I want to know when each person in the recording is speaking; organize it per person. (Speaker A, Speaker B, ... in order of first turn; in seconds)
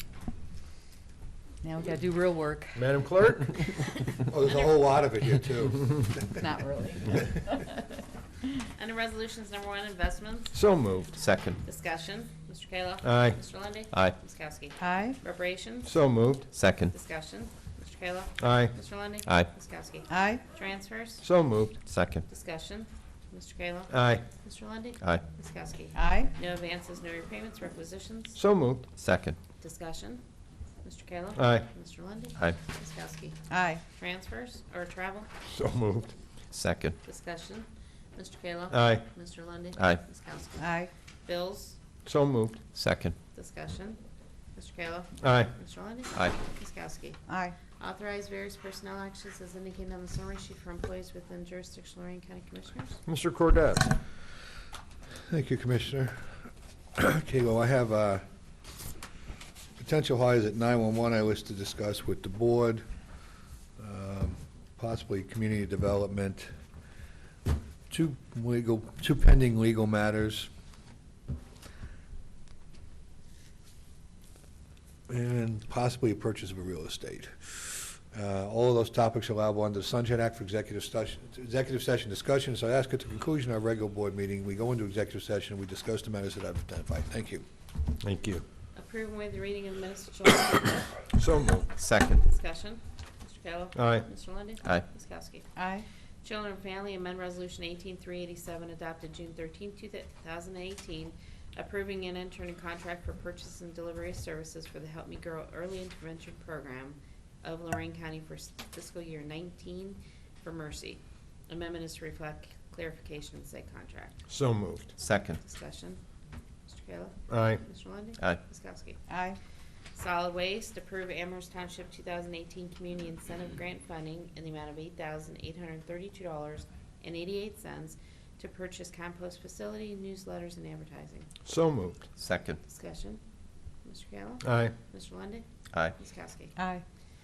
Speaker A: 1.6-2.9, 6.4-7.6, 14.8-15.2, 20.1-20.4, 25.9-26.3, 33.5-33.8, 40.6-40.9, 47.3-47.6, 95.6-95.9, 119.1-119.4, 136.6-136.8
Speaker B: 2.8-3.8, 10.5-11.1, 13.0-13.6, 15.8-16.5, 18.4-18.8, 21.2-21.8, 23.9-24.2, 28.3-28.9, 31.4-31.7, 35.5-36.1, 38.7-39.1, 42.1-42.6, 45.2-45.5, 53.1-53.9, 88.0-88.4, 91.1-91.7, 93.8-94.1, 114.3-115.0, 117.3-117.6, 131.4-132.1, 134.4-134.7
Speaker C: 4.3-6.4, 55.3-56.3, 57.0-58.2, 59.8-62.8, 63.8-66.5, 67.9-70.5, 75.1-87.4
Speaker D: 8.8-10.6, 11.6-16.0, 16.9-21.3, 22.3-28.4, 29.6-30.2, 30.8-35.3, 37.0-40.7, 41.2-41.8, 43.4-44.0, 44.5-47.2, 47.8-53.0, 88.8-91.0, 92.2-95.5, 96.2-114.3, 115.2-116.0, 116.7-119.1, 119.9-131.3, 132.6-133.2, 133.8-136.6
Speaker E: 11.1-11.6, 13.9-14.2, 16.5-16.9, 19.2-19.5, 21.8-22.2, 25.0-25.2, 28.9-29.4, 36.5-37.0, 39.8-40.0, 42.7-43.2, 46.1-46.4, 91.7-92.2, 115.0-115.4, 132.2-132.6, 135.7-136.0